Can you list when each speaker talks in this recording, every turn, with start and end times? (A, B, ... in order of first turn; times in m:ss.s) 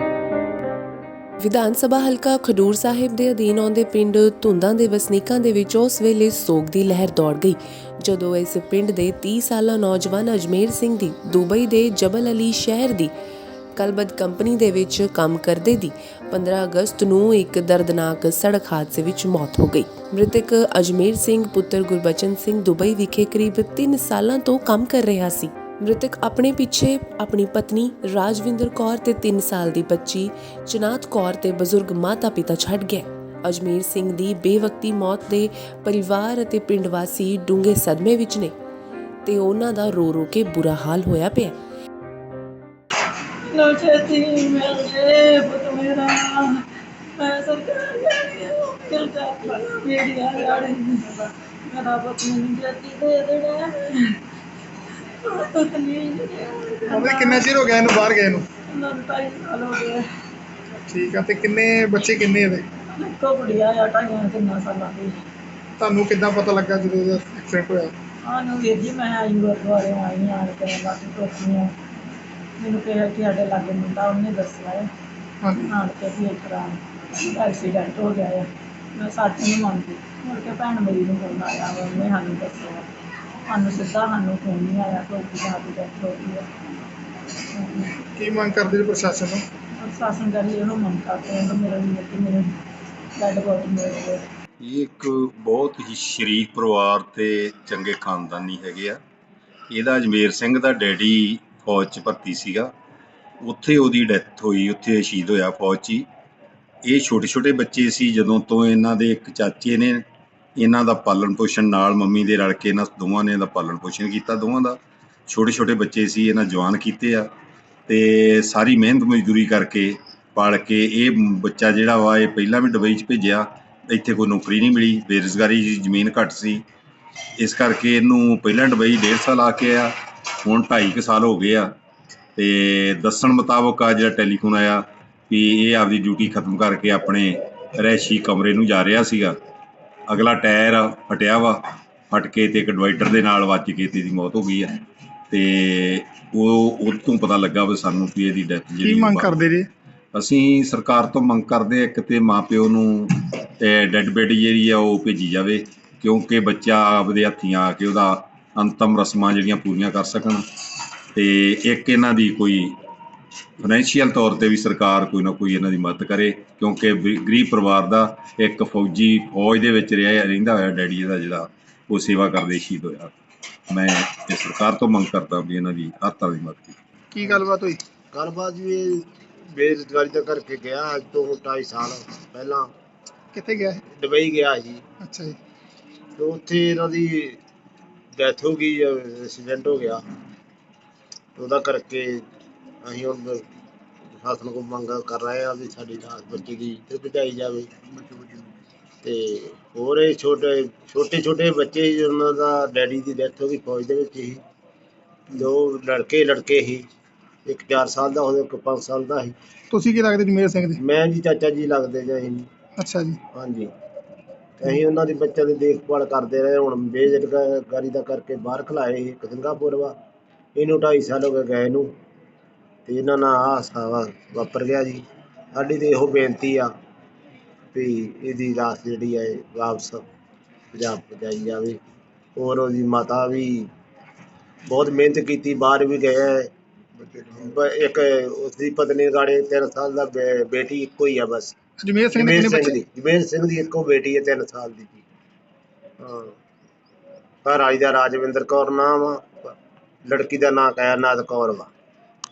0:01.4-0:13.1 A
0:13.8-0:38.5 A
0:39.2-0:41.6 A
0:43.4-0:46.6 B
0:47.2-0:54.2 B
0:55.2-0:57.5 B
0:56.9-0:58.4 C
0:58.7-1:00.0 B
1:00.9-1:02.6 C
1:02.8-1:05.1 B
1:05.8-1:07.9 C
1:08.2-1:11.7 B
1:12.6-1:14.9 B
1:15.6-1:22.9 B
1:23.5-1:26.5 B
1:27.5-1:28.0 B
1:28.2-1:29.4 C
1:29.8-1:32.5 B
1:33.2-1:34.2 B
1:34.6-1:39.0 D
1:39.7-1:42.7 D
1:43.4-1:46.1 D
1:46.8-1:50.0 D
1:50.6-1:57.3 D
1:57.9-2:06.6 D
2:07.4-2:11.7 D
2:12.4-2:19.4 D
2:20.1-2:24.8 D
2:25.3-2:29.4 D
2:28.8-2:29.7 C
2:30.1-2:40.4 D
2:41.1-2:42.8 D
2:43.6-2:53.1 D
2:53.7-2:56.8 D
2:57.1-2:57.8 C
2:58.1-3:02.7 E
3:03.3-3:03.8 C
3:03.8-3:04.8 E
3:05.0-3:05.4 C
3:06.2-3:07.4 E
3:08.2-3:10.0 E
3:11.4-3:12.2 E
3:12.8-3:13.4 E
3:14.2-3:17.7 E
3:19.0-3:24.4 E
3:25.3-3:26.8 E
3:27.4-3:29.3 E
3:29.7-3:30.8 C
3:30.8-3:32.5 E
3:32.8-3:33.2 C
3:33.3-3:33.7 E
3:34.6-3:39.9 E
3:40.5-3:41.9 E
3:42.8-3:46.7 E
3:47.7-3:50.0 E
3:50.7-3:51.8 E
3:52.4-3:53.7 E
3:54.7-3:56.5 E
3:57.1-4:01.6 E
4:01.8-4:02.8 C
4:02.1-4:05.0 E
4:06.0-4:06.3 E
4:07.4-4:09.2 E
4:10.0-4:11.7 E